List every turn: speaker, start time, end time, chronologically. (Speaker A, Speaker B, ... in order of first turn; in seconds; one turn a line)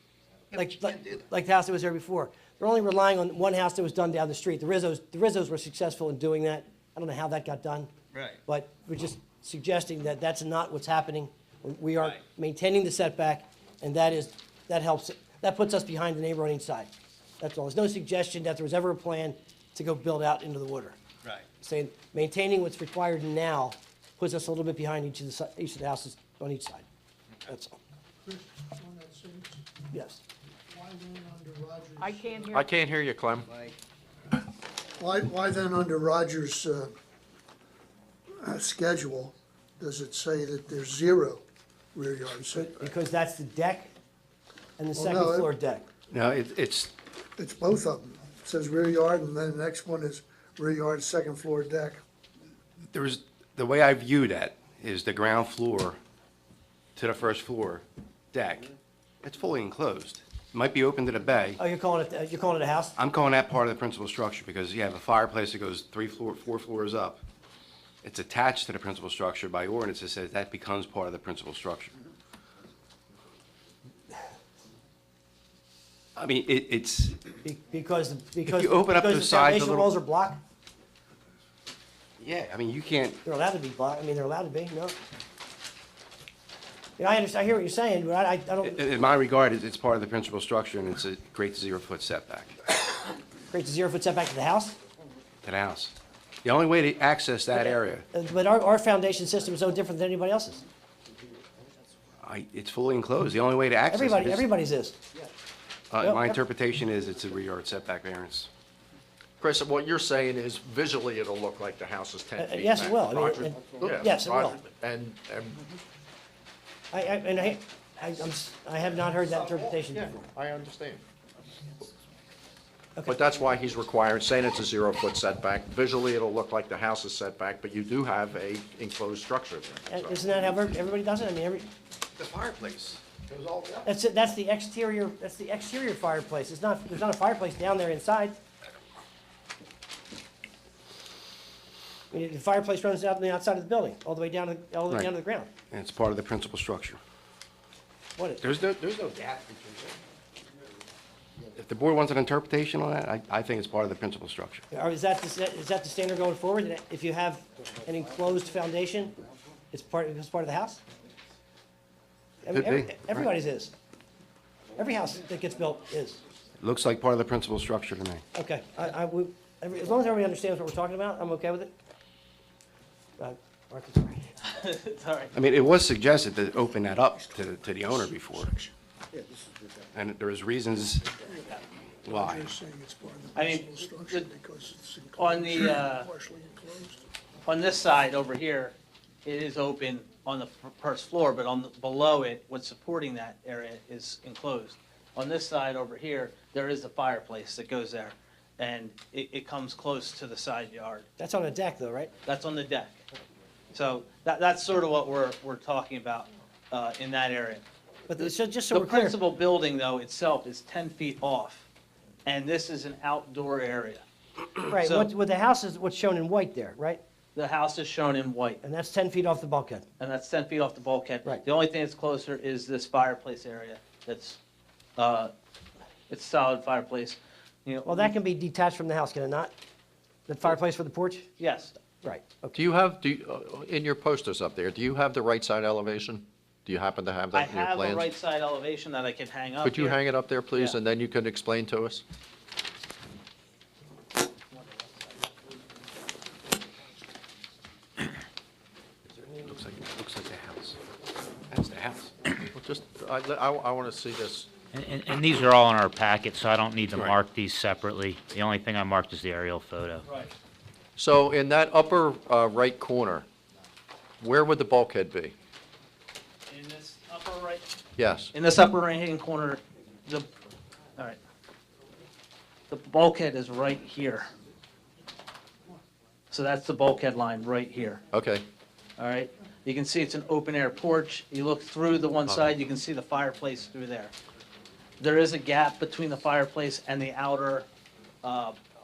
Speaker A: 0.5-7.9
Speaker B: 8.1-8.4
Speaker A: 8.5-21.0
Speaker A: 21.6-26.9
Speaker A: 27.4-27.8
Speaker C: 28.2-29.6
Speaker A: 29.9-30.2
Speaker C: 30.7-32.6
Speaker D: 32.5-33.7
Speaker C: 35.0-36.9
Speaker C: 38.4-41.4
Speaker C: 41.9-42.7
Speaker A: 42.5-43.9
Speaker A: 44.8-45.8
Speaker C: 44.9-45.5
Speaker E: 46.1-46.9
Speaker C: 47.4-52.0
Speaker E: 52.9-56.0
Speaker E: 57.0-58.7
Speaker E: 59.2-61.6
Speaker A: 61.6-63.0
Speaker E: 63.0-67.2
Speaker E: 68.0-71.9
Speaker E: 76.2-77.2
Speaker A: 77.4-80.4
Speaker E: 78.5-79.9
Speaker E: 82.2-83.2
Speaker A: 83.2-85.0
Speaker A: 87.0-88.8
Speaker E: 88.6-92.5
Speaker A: 93.5-94.8
Speaker E: 95.4-98.1
Speaker A: 97.5-100.6
Speaker E: 102.2-104.5
Speaker A: 103.9-105.0
Speaker E: 105.9-108.5
Speaker A: 106.0-106.4
Speaker D: 109.4-115.6
Speaker A: 112.4-114.6
Speaker A: 116.9-120.2
Speaker D: 119.4-121.0
Speaker D: 123.1-130.2
Speaker A: 129.9-131.7
Speaker E: 132.2-133.3
Speaker D: 133.4-133.7
Speaker A: 133.8-138.4
Speaker A: 142.1-145.5
Speaker E: 145.7-147.0
Speaker A: 148.2-148.4
Speaker E: 148.4-150.0
Speaker E: 151.5-154.6
Speaker A: 154.7-159.2
Speaker A: 159.7-160.8
Speaker A: 162.4-163.8
Speaker E: 162.5-163.2
Speaker A: 164.8-166.2
Speaker E: 166.6-168.2
Speaker A: 168.3-171.7
Speaker A: 173.2-174.3
Speaker B: 174.5-175.3
Speaker E: 175.3-178.5
Speaker C: 177.9-178.7
Speaker E: 179.9-181.1
Speaker E: 182.1-182.5
Speaker C: 182.1-187.0
Speaker B: 183.3-184.3
Speaker B: 185.2-186.1
Speaker B: 187.5-201.1
Speaker A: 201.2-202.1
Speaker B: 202.2-203.0
Speaker B: 203.7-207.6
Speaker A: 208.1-209.2
Speaker B: 208.2-211.7
Speaker B: 212.2-214.0
Speaker A: 214.7-217.0
Speaker B: 214.7-215.1
Speaker B: 217.3-218.6
Speaker A: 218.6-219.8
Speaker B: 220.0-224.4
Speaker B: 225.0-225.3
Speaker B: 226.1-228.1
Speaker A: 227.8-229.5
Speaker A: 230.3-231.3
Speaker B: 231.4-231.7
Speaker A: 232.0-232.6
Speaker D: 232.5-238.1
Speaker B: 237.3-240.8
Speaker D: 239.6-242.0
Speaker B: 244.5-245.3
Speaker E: 249.2-250.8
Speaker E: 251.5-252.1
Speaker D: 252.6-254.5
Speaker F: 254.7-260.1
Speaker D: 256.9-257.2
Speaker B: 260.1-260.3
Speaker D: 261.0-263.3
Speaker D: 264.2-265.4
Speaker B: 266.5-267.7
Speaker D: 268.0-268.3
Speaker B: 268.3-270.3
Speaker B: 272.7-274.3
Speaker B: 276.3-278.0
Speaker D: 278.1-278.4
Speaker B: 279.0-284.1
Speaker B: 285.0-287.7
Speaker B: 288.2-288.6